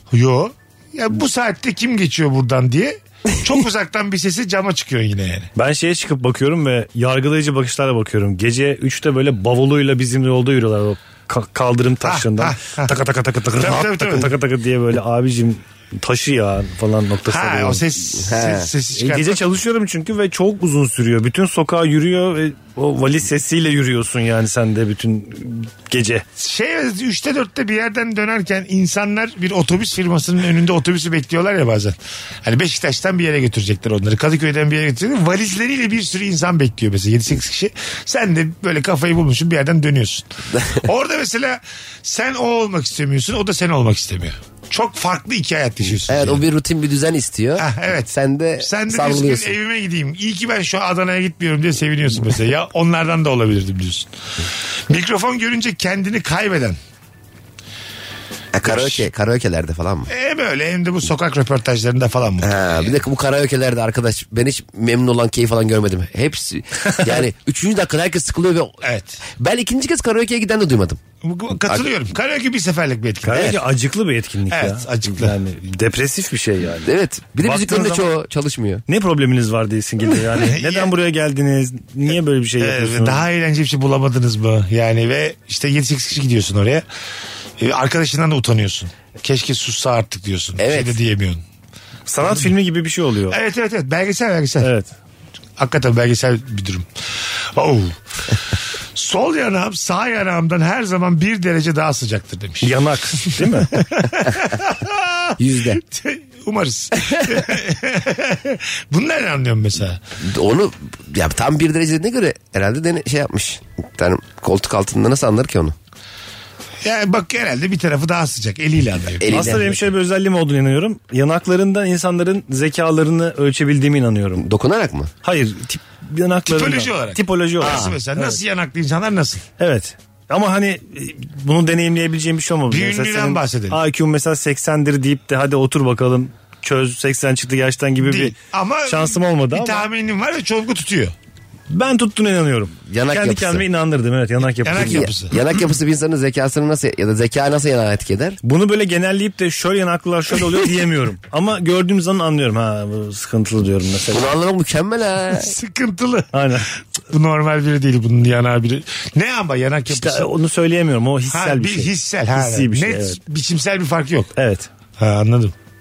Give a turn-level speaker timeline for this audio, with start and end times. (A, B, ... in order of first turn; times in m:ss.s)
0:00.1-0:05.5 A
0:05.6-0:17.8 B
0:12.0-0:14.3 A
0:17.3-0:19.4 A
0:18.2-0:18.7 C
0:19.0-0:26.2 B
0:26.4-0:46.4 A
0:46.0-0:49.6 C
0:47.6-0:54.1 A
0:54.9-0:56.8 A
0:58.5-1:00.1 C
0:58.6-0:59.1 A
1:00.1-1:02.9 A
1:02.4-1:08.8 C
1:08.8-1:09.2 A
1:09.4-1:11.0 C
1:11.2-1:13.6 A
1:13.2-1:18.1 B
1:14.5-1:15.4 A
1:16.8-1:18.8 C
1:18.9-1:23.2 B
1:20.3-1:20.9 A
1:22.6-1:26.8 A
1:27.6-1:31.4 A
1:30.6-1:31.0 C
1:32.1-1:33.4 B
1:33.3-1:34.7 A
1:34.6-1:34.9 B
1:35.6-1:36.9 A
1:37.5-1:38.4 A
1:39.0-1:50.0 A
1:42.6-1:43.7 B
1:45.4-1:45.8 C
1:50.2-1:55.8 C
1:56.8-1:59.6 A
1:59.2-1:59.8 C
1:59.3-2:04.4 B
2:04.4-2:05.1 C
2:05.2-2:08.4 B
2:06.5-2:09.4 A
2:07.6-2:08.0 C
2:09.6-2:18.4 B
2:12.7-2:13.8 A
2:18.0-2:21.1 A
2:18.9-2:19.9 B
2:21.7-2:25.1 B
2:22.9-2:23.6 C
2:24.6-2:25.4 A
2:24.7-2:28.4 C
2:28.4-2:34.3 B
2:34.1-2:35.5 C
2:35.3-2:36.3 A
2:36.3-2:36.7 B
2:37.1-2:40.3 A
2:39.9-2:43.2 B
2:41.3-2:44.3 A
2:44.4-2:44.7 B
2:45.0-2:45.5 A